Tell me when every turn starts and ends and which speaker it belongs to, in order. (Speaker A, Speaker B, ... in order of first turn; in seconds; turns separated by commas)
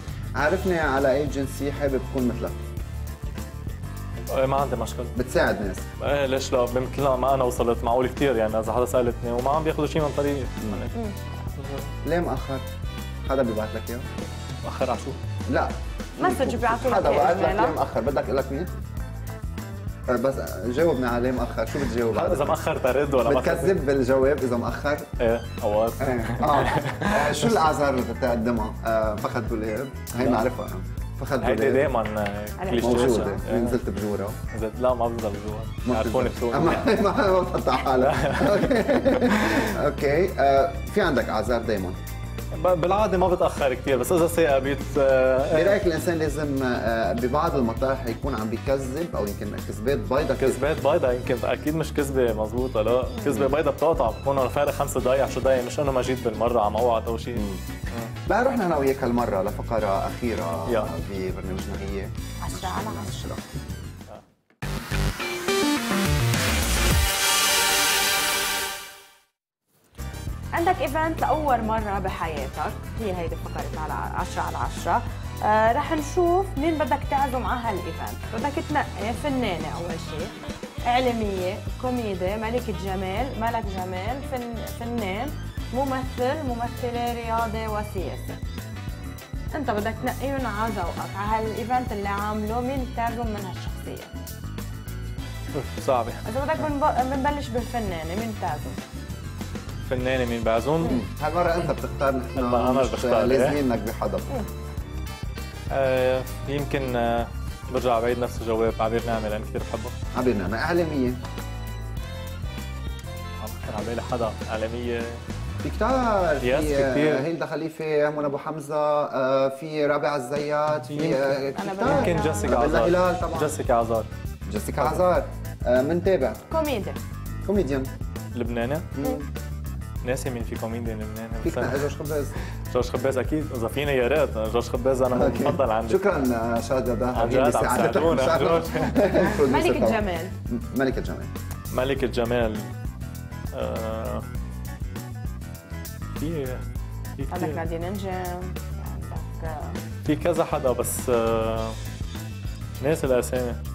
Speaker A: 0.4-2.6, Speaker B: 4.3-5.1, Speaker A: 5.1-5.8, Speaker B: 6.0-10.9, Speaker A: 10.6-10.9, Speaker B: 11.5-11.9, Speaker A: 12.0-12.7, Speaker A: 13.2-14.1, Speaker B: 14.6-15.2, Speaker A: 15.5-18.7, Speaker C: 16.2-17.8, Speaker A: 20.1-22.6, Speaker B: 22.0-23.8, Speaker A: 23.2-25.1, Speaker B: 25.2-27.6, Speaker A: 26.0-31.9, Speaker B: 30.2-30.4, Speaker B: 31.4-33.8, Speaker C: 32.6-33.4, Speaker A: 32.8-34.4, Speaker B: 34.5-37.0, Speaker A: 35.9-42.0, Speaker B: 37.9-39.7, Speaker B: 42.5-45.8, Speaker A: 45.5-50.6, Speaker B: 50.4-58.1, Speaker A: 53.2-53.5, Speaker A: 57.4-57.6, Speaker A: 58.3-63.5, Speaker B: 60.7-60.9, Speaker C: 62.4-63.2, Speaker C: 70.5-88.4, Speaker C: 89.5-94.1, Speaker B: 95.5-96.2, Speaker C: 96.2-98.8, Speaker B: 99.8-101.0, Speaker A: 100.8-104.3, Speaker B: 102.3-103.6, Speaker B: 105.7-110.0, Speaker A: 110.1-111.2, Speaker B: 113.4-115.2, Speaker A: 115.6-123.5, Speaker B: 116.4-117.3, Speaker B: 120.9-124.1, Speaker C: 121.5-122.7, Speaker A: 124.5-126.4, Speaker C: 126.5-127.0, Speaker A: 127.5-127.9, Speaker B: 128.3-128.9, Speaker A: 128.9-129.3, Speaker B: 130.0-136.0, Speaker A: 131.4-132.4, Speaker A: 135.1-141.3, Speaker B: 137.1-139.3, Speaker C: 139.4-140.3, Speaker B: 141.7-142.7, Speaker B: 143.5-144.2, Speaker B: 146.2-146.6, Speaker B: 147.2-147.6, Speaker C: 147.3-149.8, Speaker B: 150.0-151.8, Speaker B: 152.8-153.6